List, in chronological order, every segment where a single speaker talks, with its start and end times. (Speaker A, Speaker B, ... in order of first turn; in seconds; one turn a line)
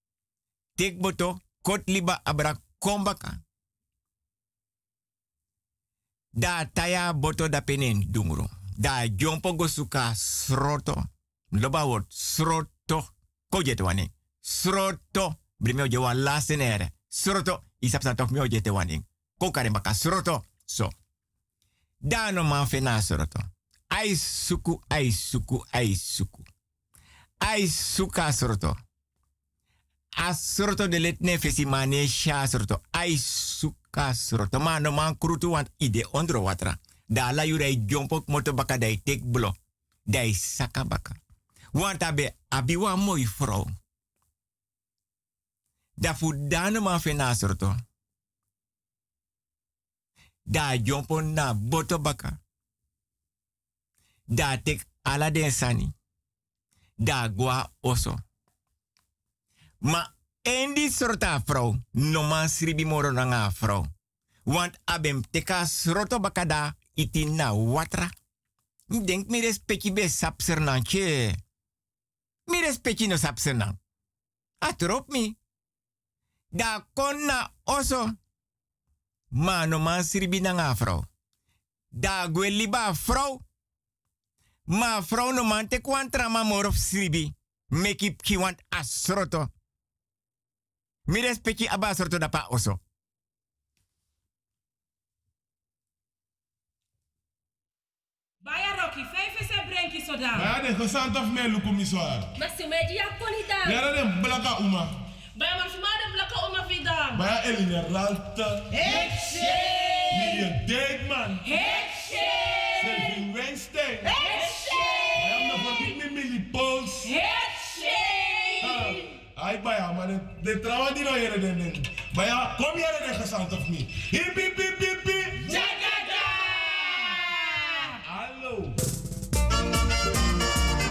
Speaker A: 0.8-3.4
Speaker A: 6.4-20.9
Speaker A: 22.0-26.5
Speaker A: 27.4-28.8
Speaker A: 30.2-39.5
Speaker A: 40.1-41.2
Speaker A: 41.8-43.7
Speaker A: 46.0-47.8
Speaker A: 50.5-52.4
Speaker A: 54.3-55.9
Speaker A: 57.0-58.2
Speaker A: 59.8-63.9
Speaker A: 64.5-68.1
Speaker A: 68.9-71.4
Speaker A: 72.5-73.8
Speaker A: 74.6-75.4
Speaker A: 76.5-78.2
Speaker A: 79.3-81.1
Speaker A: 82.0-83.4
Speaker A: 84.7-89.5
Speaker A: 91.1-92.8
Speaker B: 98.5-100.4
Speaker C: 101.2-102.2
Speaker B: 102.5-103.5
Speaker C: 104.2-104.7
Speaker B: 105.4-107.1
Speaker C: 107.4-108.6
Speaker C: 110.3-111.3
Speaker C: 112.8-113.9
Speaker C: 115.4-116.9
Speaker B: 117.7-117.9
Speaker C: 119.4-125.4
Speaker B: 125.7-126.0
Speaker C: 128.2-128.6